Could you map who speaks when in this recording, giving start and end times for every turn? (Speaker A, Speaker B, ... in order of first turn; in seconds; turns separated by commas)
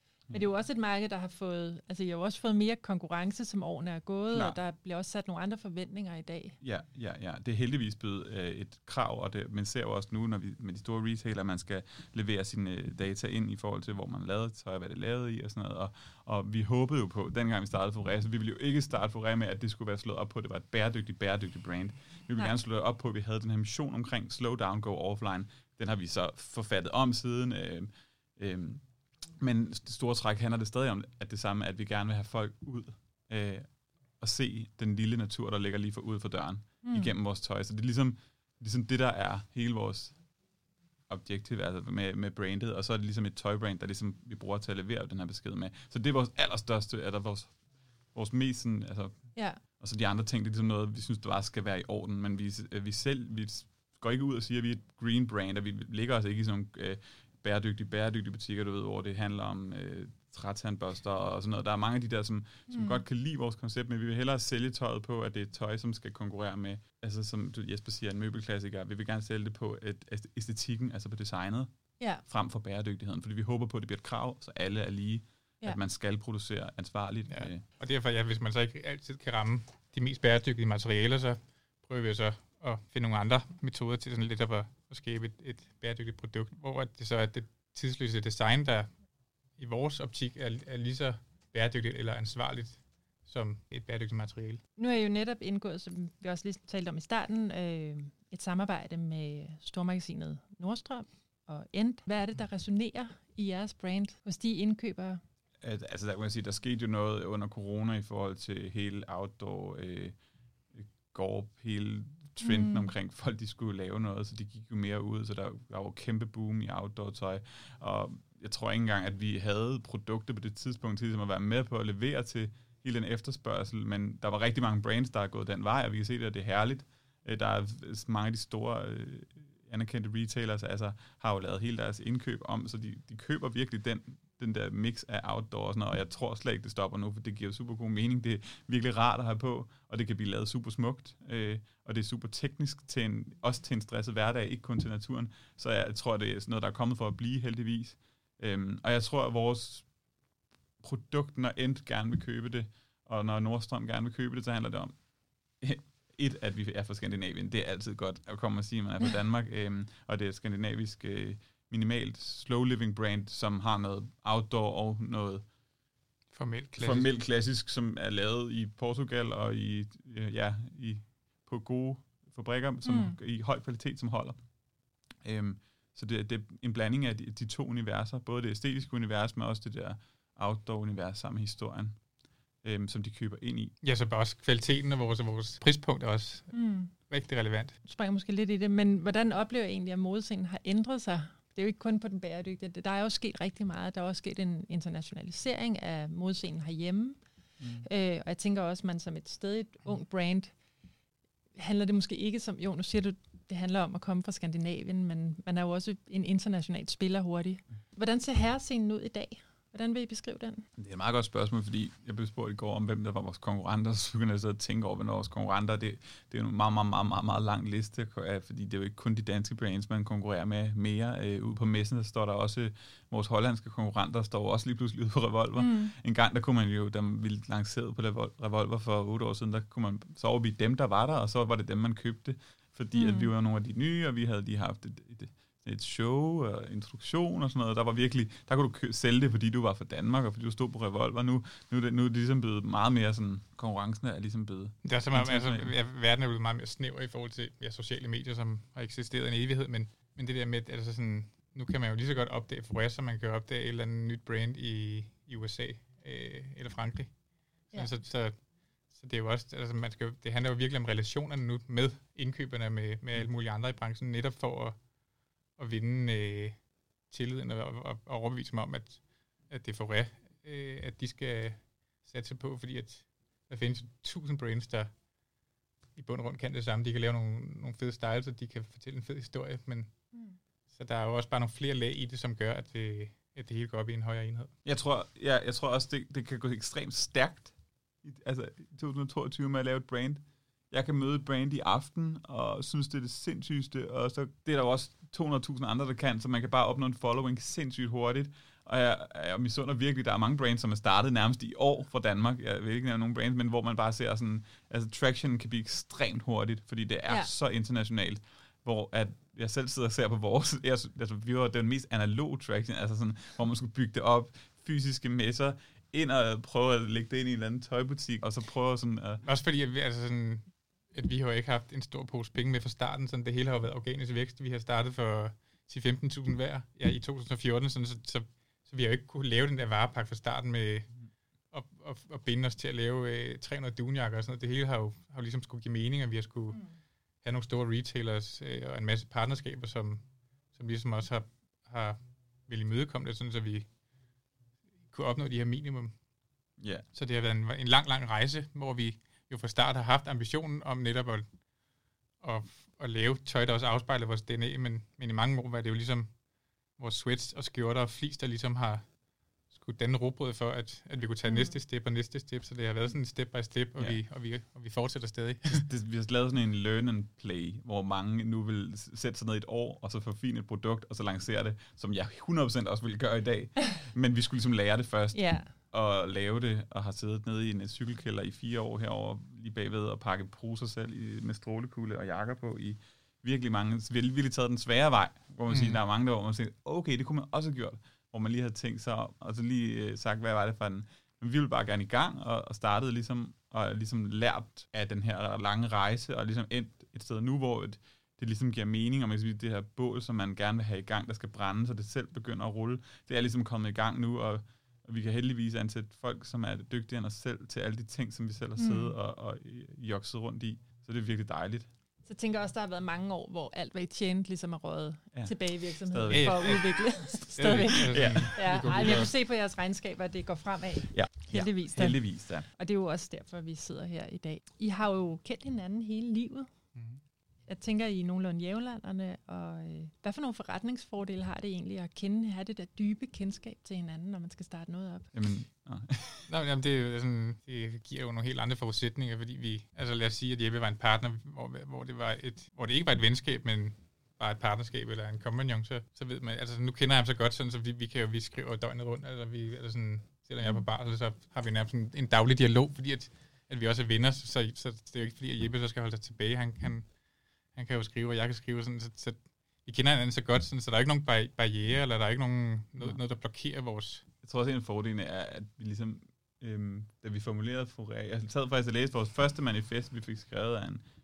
Speaker A: 0.3-6.6, Speaker B: 4.3-4.6, Speaker B: 6.6-28.8, Speaker B: 29.4-40.2, Speaker A: 36.8-37.1, Speaker B: 41.1-47.6, Speaker B: 48.1-71.7, Speaker A: 49.4-49.6, Speaker A: 62.7-63.0, Speaker B: 72.3-77.6, Speaker C: 77.3-88.9, Speaker C: 89.6-94.6, Speaker A: 94.8-105.2, Speaker B: 105.6-110.2, Speaker B: 110.7-149.9, Speaker A: 112.4-112.9, Speaker B: 150.8-155.0, Speaker B: 155.6-165.4, Speaker C: 166.3-167.1, Speaker B: 166.8-174.4, Speaker A: 172.8-173.2, Speaker B: 175.2-182.0, Speaker B: 182.6-183.7, Speaker C: 183.8-187.8, Speaker A: 186.5-186.9, Speaker A: 187.8-197.2, Speaker A: 197.7-200.6, Speaker A: 201.6-210.7, Speaker B: 210.8-245.7, Speaker A: 225.6-225.9, Speaker A: 232.9-233.3, Speaker C: 244.8-257.1, Speaker C: 257.7-258.4, Speaker C: 258.9-264.8, Speaker C: 265.6-266.6, Speaker C: 267.1-274.9, Speaker C: 276.0-279.9, Speaker C: 280.7-284.5, Speaker B: 284.6-319.2, Speaker C: 319.2-330.9, Speaker C: 331.5-336.6, Speaker C: 337.2-343.7, Speaker C: 344.9-345.9, Speaker B: 346.6-346.9, Speaker C: 346.9-351.3, Speaker C: 352.2-356.1, Speaker C: 356.8-358.8, Speaker C: 359.5-365.7, Speaker A: 361.3-361.6, Speaker B: 365.5-411.7, Speaker A: 375.1-375.5, Speaker C: 385.5-385.8, Speaker A: 408.6-408.9, Speaker A: 412.1-426.5, Speaker B: 415.1-416.7, Speaker C: 416.1-419.1, Speaker B: 417.2-419.1, Speaker B: 420.9-422.5, Speaker C: 426.8-427.0, Speaker A: 427.5-435.1, Speaker B: 435.1-436.3, Speaker C: 436.3-456.9, Speaker C: 457.6-464.1, Speaker B: 464.2-470.8